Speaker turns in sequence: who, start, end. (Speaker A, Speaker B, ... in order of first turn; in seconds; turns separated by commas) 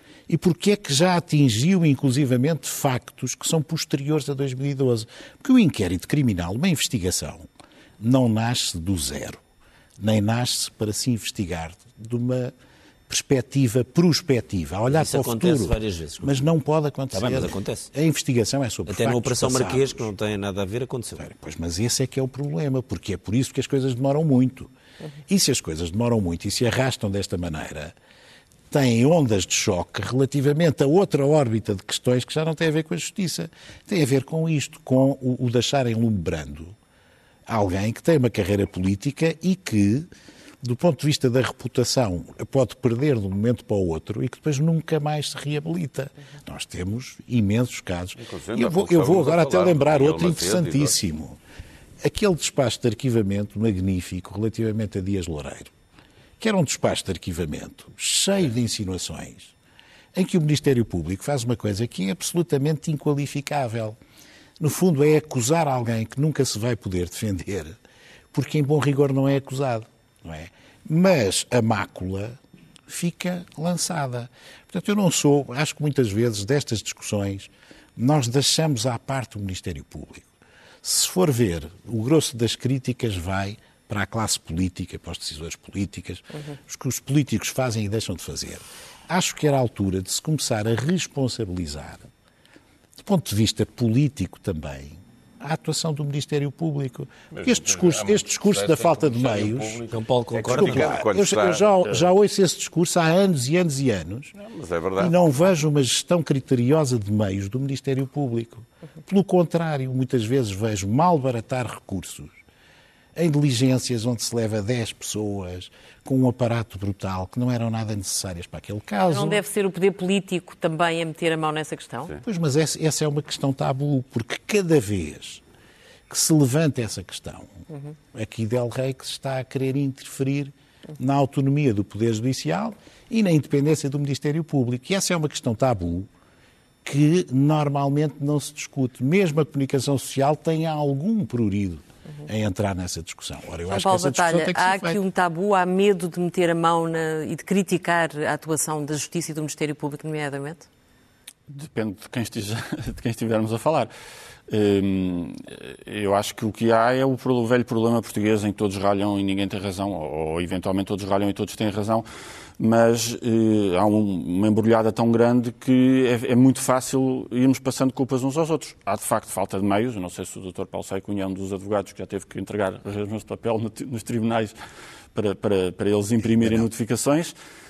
Speaker A: 0.3-7.5, Speaker A: 8.0-9.4, Speaker A: 10.0-12.5, Speaker A: 13.1-20.1, Speaker B: 14.9-16.4, Speaker B: 17.1-17.9, Speaker B: 18.9-21.3, Speaker A: 21.2-24.7, Speaker A: 25.3-27.9, Speaker A: 28.7-36.8, Speaker A: 37.5-40.1, Speaker A: 40.6-51.4, Speaker C: 48.2-51.0, Speaker A: 52.0-55.7, Speaker A: 56.4-59.5, Speaker A: 60.1-64.0, Speaker A: 64.6-67.8, Speaker A: 68.3-80.3, Speaker A: 80.8-92.1, Speaker A: 93.0-99.8, Speaker C: 97.3-101.7, Speaker B: 99.9-101.0, Speaker A: 100.5-104.3, Speaker C: 104.4-105.2, Speaker A: 105.0-112.3, Speaker A: 113.2-119.4, Speaker D: 119.1-122.2, Speaker A: 122.2-125.4, Speaker A: 126.1-127.6, Speaker A: 128.1-136.1, Speaker A: 136.8-145.0, Speaker D: 143.7-150.7, Speaker E: 151.5-153.9, Speaker E: 154.5-162.1, Speaker E: 162.6-174.6, Speaker E: 175.1-177.3